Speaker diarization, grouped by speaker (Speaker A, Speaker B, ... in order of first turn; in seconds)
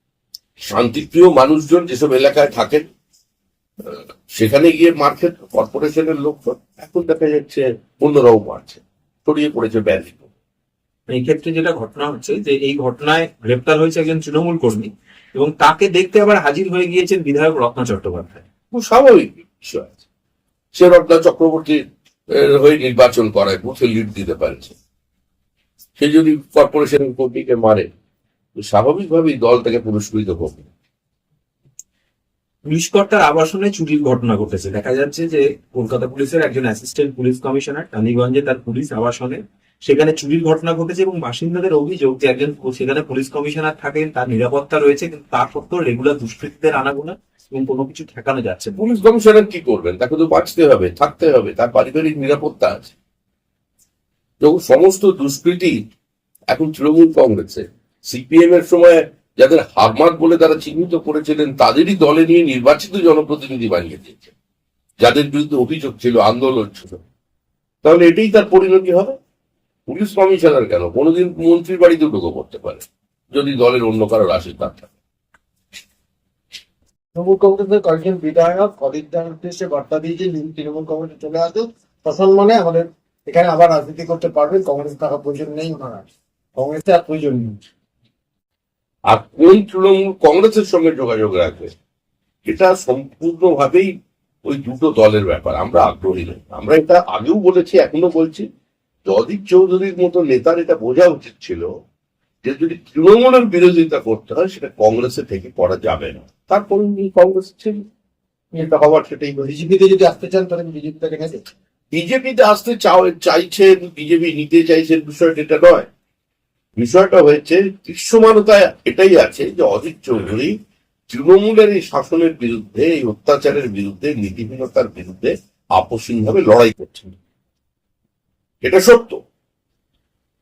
Speaker A: 0.6-2.9, 3.9-10.3, 18.7-20.0, 20.7-24.8, 26.0-27.9, 28.6-30.7, 48.8-52.9, 54.4-55.8, 56.5-64.3, 65.0-67.0, 67.8-69.2, 69.9-74.9, 89.1-91.7, 92.5-93.9, 94.5-98.5, 99.0-101.7, 102.4-107.8, 108.5-109.5, 111.9-115.9, 116.8-120.5, 121.1-127.1, 128.6-129.2
Speaker B: 11.1-18.4, 32.7-48.8
Speaker C: 77.2-87.6, 109.4-111.4